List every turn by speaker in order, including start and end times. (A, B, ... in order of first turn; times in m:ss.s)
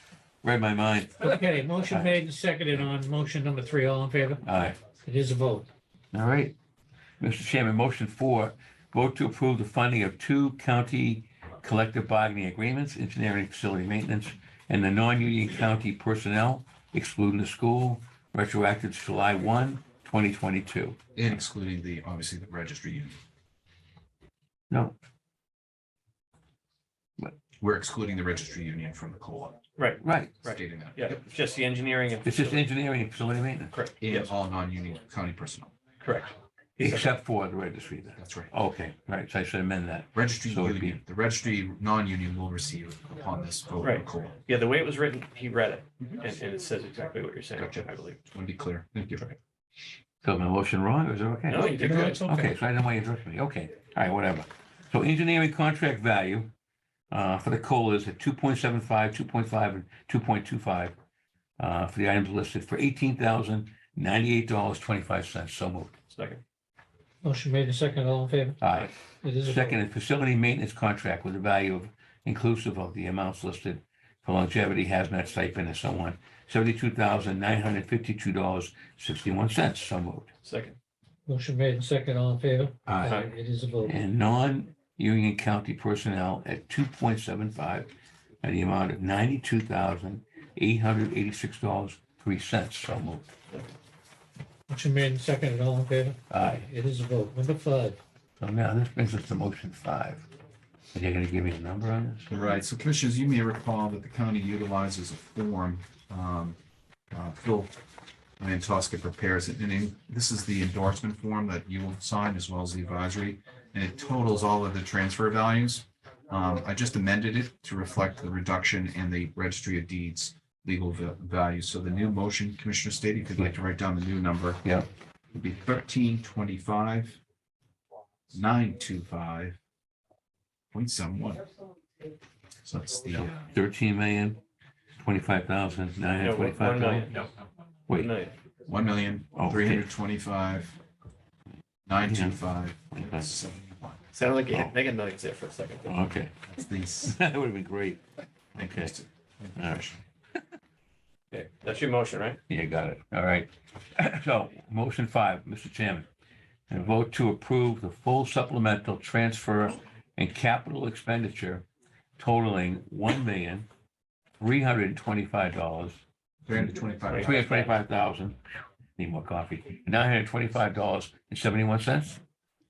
0:00.4-0:02.2 A
0:01.2-0:04.4 B
0:04.4-0:04.8 A
0:05.0-0:05.7 B
0:06.1-0:06.6 A
0:07.2-0:21.0 A
0:21.2-0:23.2 C
0:24.7-0:25.0 A
0:27.6-0:29.6 C
0:29.8-0:32.7 D
0:30.0-0:30.4 A
0:30.4-0:31.2 C
0:32.2-0:33.7 A
0:33.7-0:34.3 D
0:34.0-0:35.8 C
0:36.0-0:37.1 D
0:36.8-0:41.0 A
0:38.2-0:38.5 C
0:40.1-0:44.4 C
0:43.8-0:48.2 D
0:47.6-0:49.3 C
0:50.2-0:56.5 A
0:51.5-0:52.3 D
0:51.6-0:52.6 B
0:57.1-1:00.9 A
1:01.6-1:05.9 A
1:06.1-1:06.4 D
1:07.2-1:08.6 B
1:08.6-1:08.9 A
1:09.2-1:09.8 B
1:09.4-1:20.3 A
1:20.4-1:20.8 D
1:21.3-1:24.0 B
1:23.1-1:23.3 D
1:23.8-1:27.9 A
1:28.4-1:33.3 A
1:34.7-1:38.0 B
1:36.3-1:36.7 A
1:38.4-1:40.3 A
1:40.9-1:42.4 A
1:42.3-1:46.6 C
1:47.1-1:47.8 C
1:48.4-2:04.6 C
2:04.6-2:04.9 A
2:05.3-2:07.2 C
2:08.3-2:09.6 C
2:10.7-2:11.5 C
2:12.6-2:13.3 C
2:13.1-2:14.4 A
2:15.0-2:17.2 A
2:16.2-2:17.3 D
2:17.9-2:18.2 A
2:17.9-2:18.4 D
2:18.7-2:20.8 C
2:19.4-2:19.9 A
2:21.9-2:24.0 C
2:22.0-2:22.4 A
2:22.9-2:23.3 A
2:24.1-2:26.1 D
2:24.5-2:24.8 A
2:25.9-2:26.4 A
2:26.5-2:27.2 C
2:27.0-2:28.0 A
2:28.5-2:28.9 A
2:28.6-2:30.0 C
2:29.6-2:29.9 A
2:31.3-2:32.4 D
2:32.5-2:36.1 A
2:36.7-2:41.7 A
2:42.2-2:43.7 A
2:44.4-2:46.0 A
2:46.5-2:47.6 C
2:47.2-2:48.4 A
2:49.0-2:52.2 A